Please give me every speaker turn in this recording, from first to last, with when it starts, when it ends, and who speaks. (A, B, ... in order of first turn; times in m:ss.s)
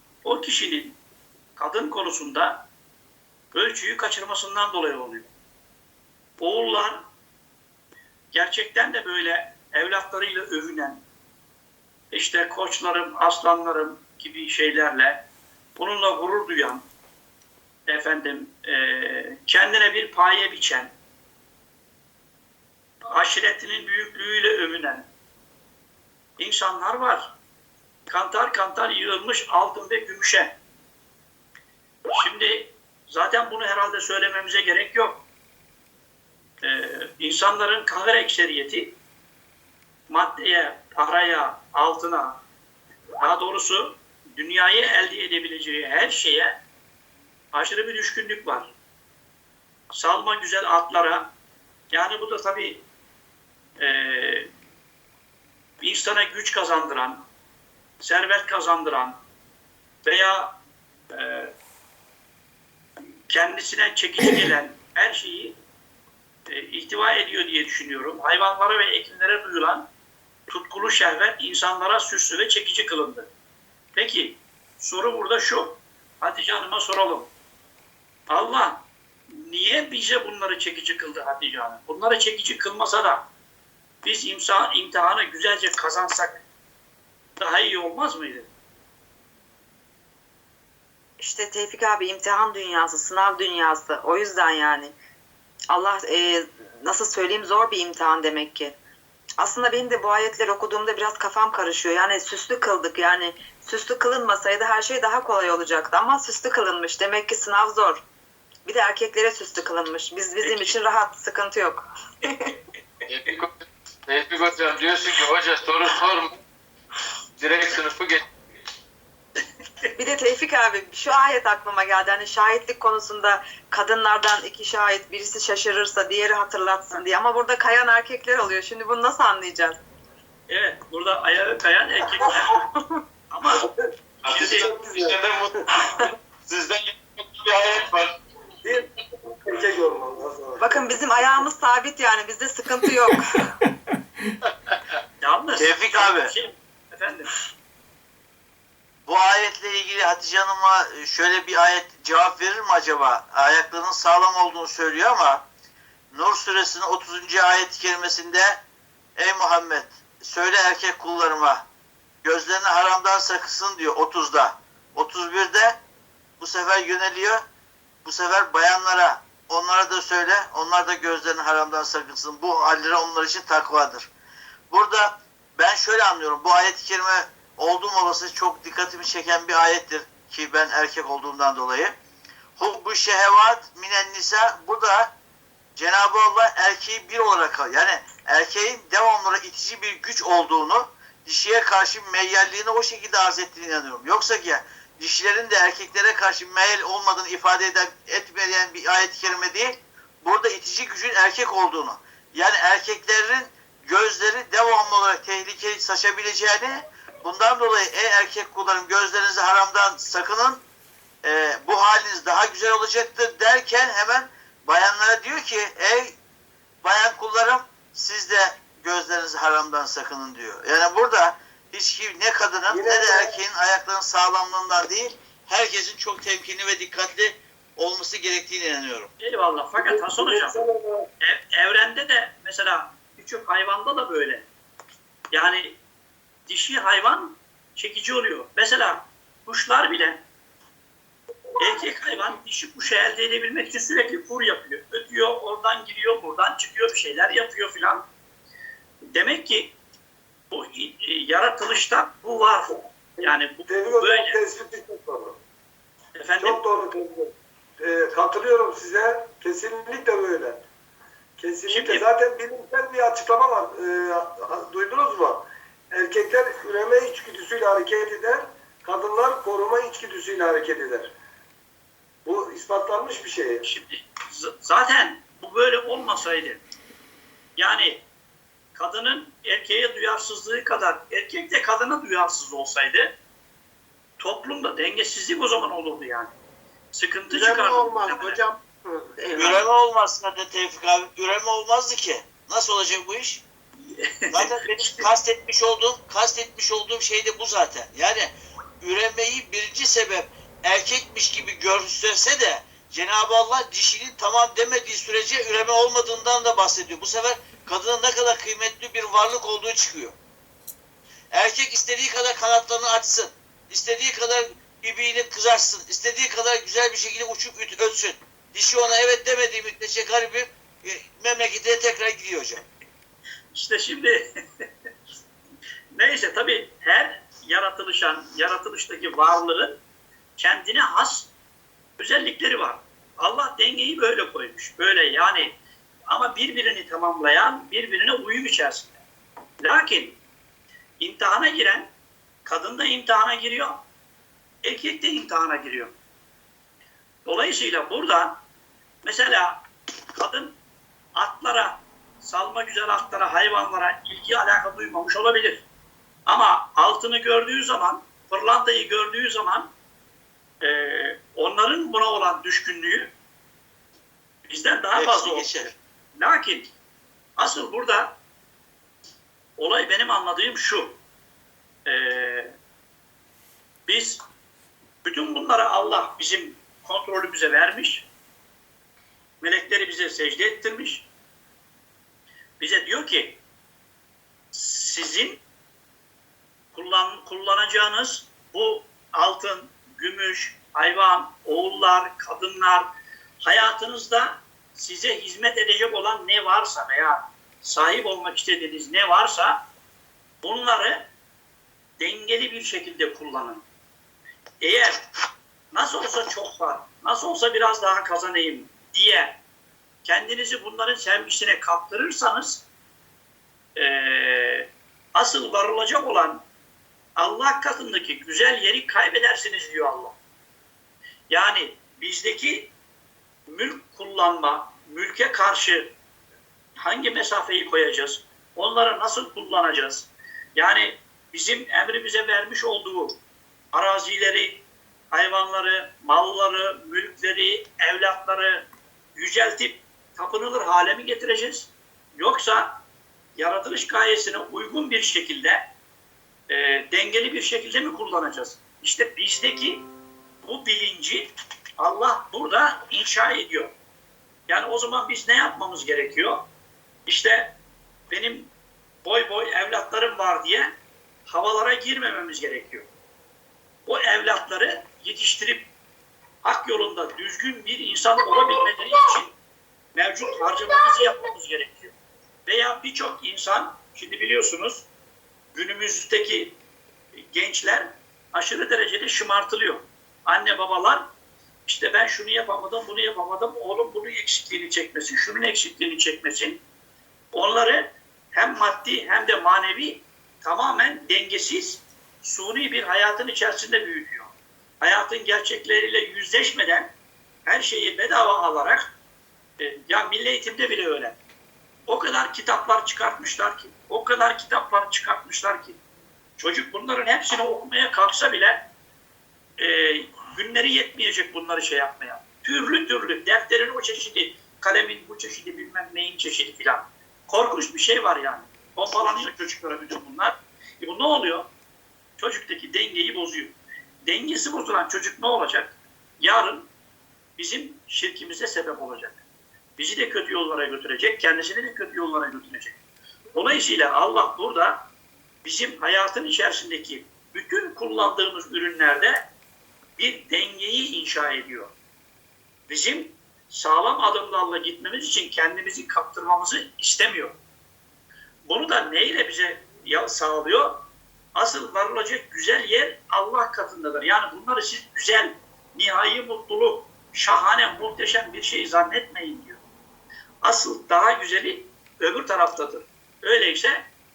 0:00.2-0:01.0 A
0:01.6-0:02.7 A
0:03.5-0:05.3 A
0:06.4-0:07.1 A
0:08.3-0:11.0 A
0:12.1-0:15.3 A
0:15.8-0:16.9 A
0:17.9-0:20.9 A
0:23.1-0:25.1 A
0:26.4-0:27.3 A
0:28.1-0:30.6 A
0:32.1-0:35.2 A
0:36.6-0:39.0 A
0:40.1-0:42.4 A
0:43.2-0:46.6 A
0:47.5-0:48.7 A
0:49.9-0:51.3 A
0:51.9-0:52.8 A
0:53.8-0:54.5 A
0:55.8-0:57.3 A
0:58.0-0:59.2 A
1:00.0-1:00.6 A
1:01.1-1:01.5 A
1:03.3-1:05.6 A
1:06.5-1:09.9 A
1:10.5-1:13.3 A
1:14.0-1:17.3 A
1:18.3-1:23.3 A
1:24.0-1:26.4 A
1:27.4-1:28.5 A
1:31.2-1:35.0 B
1:35.7-1:38.8 B
1:39.4-1:48.0 B
1:48.6-1:52.5 B
1:50.4-1:50.7 A
1:53.1-1:56.4 C
1:57.4-1:58.3 C
2:00.0-2:09.8 B
2:10.5-2:12.7 A
2:13.3-2:13.7 A
2:14.2-2:18.1 C
2:14.3-2:14.7 A
2:14.3-2:15.7 D
2:18.6-2:21.4 D
2:20.6-2:23.5 B
2:25.2-2:27.3 A
2:25.6-2:26.3 E
2:29.0-2:35.4 E
2:36.1-2:38.6 E
2:39.2-2:41.6 E
2:42.2-2:45.8 E
2:46.4-2:47.4 E
2:48.0-2:54.1 E
2:54.7-3:01.9 E
3:02.6-3:05.1 E
3:05.8-3:30.6 E
3:31.2-3:36.2 E
3:36.8-3:49.1 E
3:42.7-3:43.4 D
3:49.2-3:50.6 A
3:49.8-3:51.1 D
3:51.2-3:54.5 A
3:55.3-3:55.8 A
3:56.5-4:00.2 A
4:01.6-4:08.0 A
4:09.1-4:09.8 A
4:10.5-4:14.4 A
4:13.2-4:15.4 D
4:16.2-4:16.6 A
4:16.4-4:20.6 D
4:21.4-4:31.1 D
4:21.7-4:22.0 A
4:32.2-4:33.6 D
4:33.6-4:36.6 A
4:37.6-4:38.0 A
4:38.8-4:43.2 A
4:44.2-4:46.3 A
4:46.9-4:48.4 A
4:47.3-4:49.7 F
4:49.3-4:53.4 E
4:53.9-4:55.0 A
4:54.3-5:10.2 E
5:11.3-5:22.6 E
5:23.5-5:24.2 A
5:25.9-5:29.8 A
5:30.4-5:31.3 A
5:32.0-5:35.6 A
5:36.1-5:39.0 A
5:39.6-5:40.2 A
5:41.0-5:41.9 A
5:42.4-5:43.8 A
5:44.6-5:46.0 A
5:47.2-5:48.4 A
5:49.0-5:50.6 A
5:51.2-5:55.7 A
5:56.3-5:59.7 A
6:00.6-6:03.1 A
6:04.5-6:06.7 A
6:04.9-6:05.8 E
6:07.4-6:08.2 A
6:09.6-6:11.0 A
6:11.8-6:12.5 A
6:13.8-6:14.2 A
6:15.0-6:18.1 A
6:19.4-6:21.1 A
6:22.6-6:23.4 A
6:24.5-6:25.4 A
6:26.7-6:32.9 A
6:33.4-6:39.6 A
6:40.4-6:41.1 A
6:42.0-6:43.6 A
6:44.6-6:45.0 A
6:45.7-6:49.4 A
6:50.0-6:52.6 A
6:53.8-6:56.4 A
6:57.2-7:00.2 A
7:01.3-7:02.7 A
7:03.5-7:05.9 A
7:06.8-7:13.2 A
7:13.7-7:22.8 A
7:23.4-7:25.7 A
7:26.5-7:29.9 A
7:30.4-7:33.7 A
7:34.5-7:36.5 A
7:37.1-7:37.6 A
7:38.1-7:38.5 A
7:39.0-7:42.9 A
7:43.8-7:45.7 A
7:46.4-7:49.3 A
7:49.9-7:51.9 A
7:52.4-7:54.9 A
7:55.6-7:56.6 A
7:57.3-8:01.1 A
8:01.6-8:06.6 A
8:07.3-8:16.9 A
8:17.4-8:18.9 A
8:19.6-8:21.2 A
8:21.9-8:25.8 A
8:26.4-8:28.7 A
8:29.6-8:41.5 A
8:42.2-8:46.7 A
8:47.4-8:49.2 A
8:49.8-8:52.8 A
8:53.4-8:54.9 A
8:55.4-8:59.3 A
9:00.0-9:01.7 A
9:02.7-9:07.4 A
9:08.4-9:19.6 A
9:20.4-9:23.9 A